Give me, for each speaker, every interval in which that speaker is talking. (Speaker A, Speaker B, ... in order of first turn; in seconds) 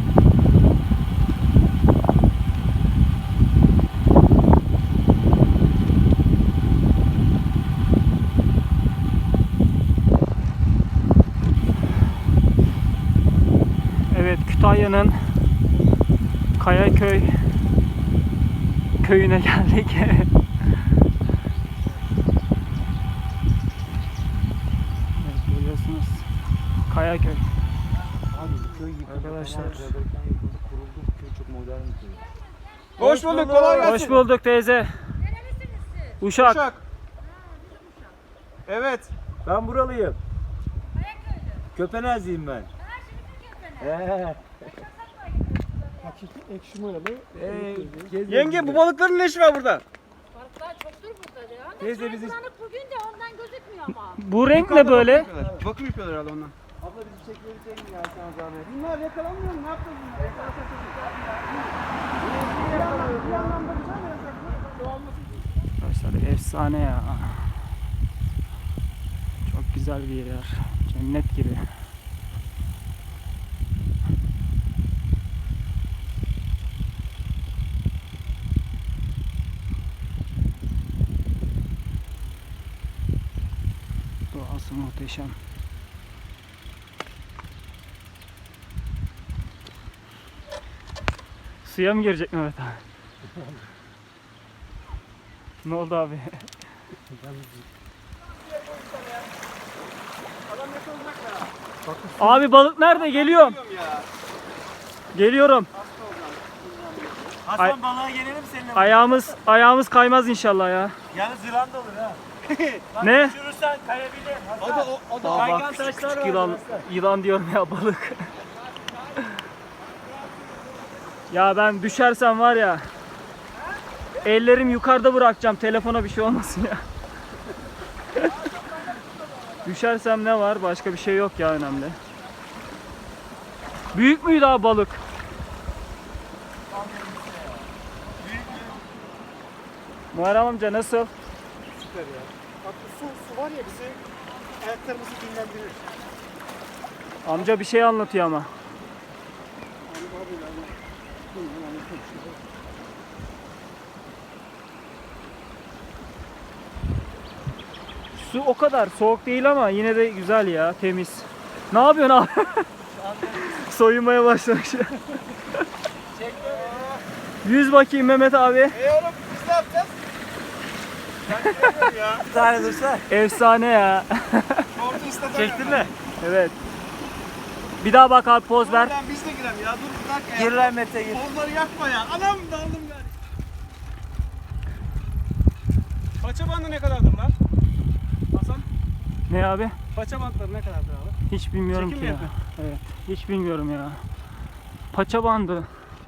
Speaker A: 14.1-15.4, 16.6-17.4, 19.0-20.3, 25.1-26.3, 26.9-27.5, 29.1-29.9, 33.7-35.1, 36.2-36.6, 53.9-55.3, 65.8-67.6, 69.4-71.7, 84.3-85.4, 91.6-92.8, 95.6-96.5, 102.2-103.6, 105.1-105.7, 108.7-111.0, 113.0-113.3, 115.2-118.3, 121.3-122.9, 124.2-126.8, 129.6-132.0, 133.9-135.0, 140.1-141.1, 147.2-148.5, 158.1-162.7, 163.2-165.6, 167.4-168.8, 173.1-174.7, 176.2-176.6, 177.8-178.9, 189.3-189.8, 191.3-194.1, 194.9-195.7
Speaker B: 28.3-32.3, 33.0-34.2, 39.4-40.2, 41.7-42.7, 43.8-44.8, 47.3-48.8, 51.7-52.4, 56.8-58.9, 62.2-63.5, 107.4-109.4, 111.1-112.2, 112.9-116.8, 136.7-137.6, 172.2-173.1, 175.1-175.9, 180.3-181.3
Speaker C: 33.0-34.1, 36.4-36.8, 38.7-39.1, 48.3-49.8, 54.5-56.6, 58.9-61.7, 62.3-65.1, 98.5-99.3, 100.5-101.5, 102.9-104.1, 105.7-107.4, 112.5-112.8, 114.6-115.7, 120.1-120.8, 128.5-129.1, 141.8-142.3, 144.7-145.4, 166.2-167.0, 168.7-169.9, 171.2-172.3, 174.8-175.9, 178.6-183.1, 186.2-187.3, 188.3-188.7, 189.9-191.2, 191.7-192.3
Speaker D: 35.5-35.9, 43.2-43.6, 51.2-51.7, 52.4-53.8
Speaker E: 46.0-48.1, 97.1-97.7, 101.8-102.2, 142.7-143.9, 144.7-145.8, 149.9-150.6, 151.3-152.4